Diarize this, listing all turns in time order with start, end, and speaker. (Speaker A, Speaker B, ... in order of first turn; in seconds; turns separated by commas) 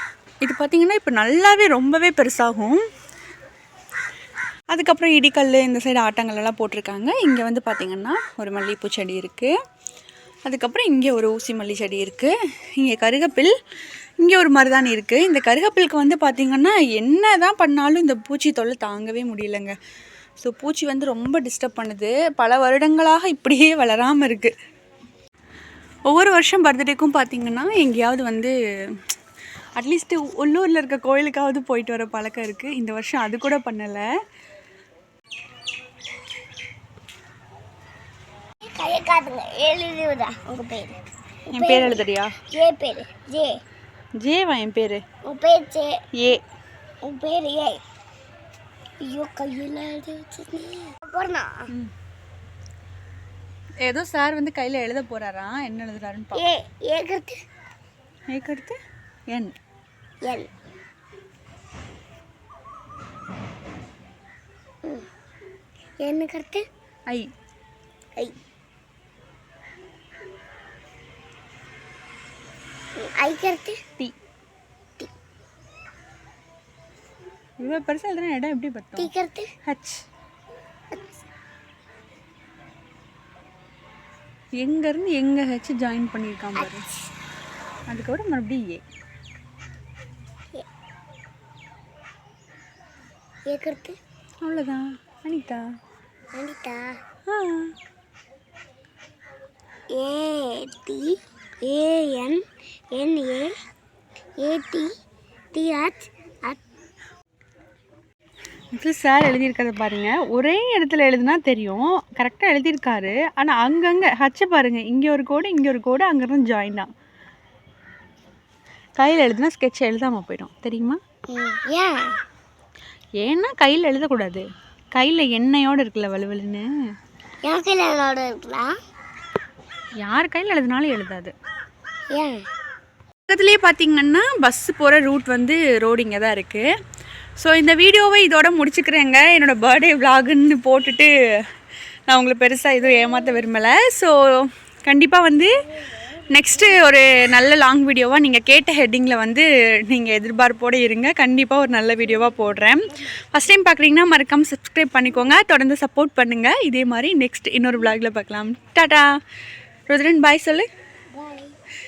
Speaker A: 0.4-2.8, Speaker A: 4.7-9.5, Speaker A: 10.4-13.5, Speaker A: 14.2-19.7, Speaker A: 20.4-24.5, Speaker A: 26.1-28.5, Speaker A: 29.8-34.0, Speaker B: 38.6-41.0, Speaker B: 41.5-42.0, Speaker A: 41.5-42.3, Speaker B: 42.5-43.6, Speaker A: 44.1-45.0, Speaker B: 45.2-46.0, Speaker A: 46.2-46.4, Speaker B: 47.0-47.8, Speaker B: 49.0-51.7, Speaker A: 53.8-56.5, Speaker B: 56.3-57.4, Speaker A: 58.3-58.8, Speaker B: 60.2-60.5, Speaker B: 66.0-66.6, Speaker B: 73.0-73.8, Speaker A: 77.6-79.1, Speaker B: 79.0-79.5, Speaker A: 79.6-80.0, Speaker A: 84.6-86.9, Speaker B: 86.5-87.1, Speaker A: 87.9-88.8, Speaker B: 93.5-94.0, Speaker A: 94.4-95.6, Speaker B: 96.3-97.0, Speaker A: 97.3-97.7, Speaker B: 99.9-102.4, Speaker B: 102.9-103.5, Speaker B: 104.4-104.9, Speaker B: 105.5-106.6, Speaker A: 108.7-116.9, Speaker A: 119.0-121.0, Speaker B: 121.3-122.2, Speaker A: 123.2-126.7, Speaker B: 127.4-128.8, Speaker A: 130.0-131.3, Speaker B: 132.1-132.4, Speaker A: 133.3-136.7, Speaker A: 137.4-141.1, Speaker A: 142.1-145.6, Speaker A: 146.3-159.1, Speaker A: 159.9-160.7, Speaker B: 161.1-161.6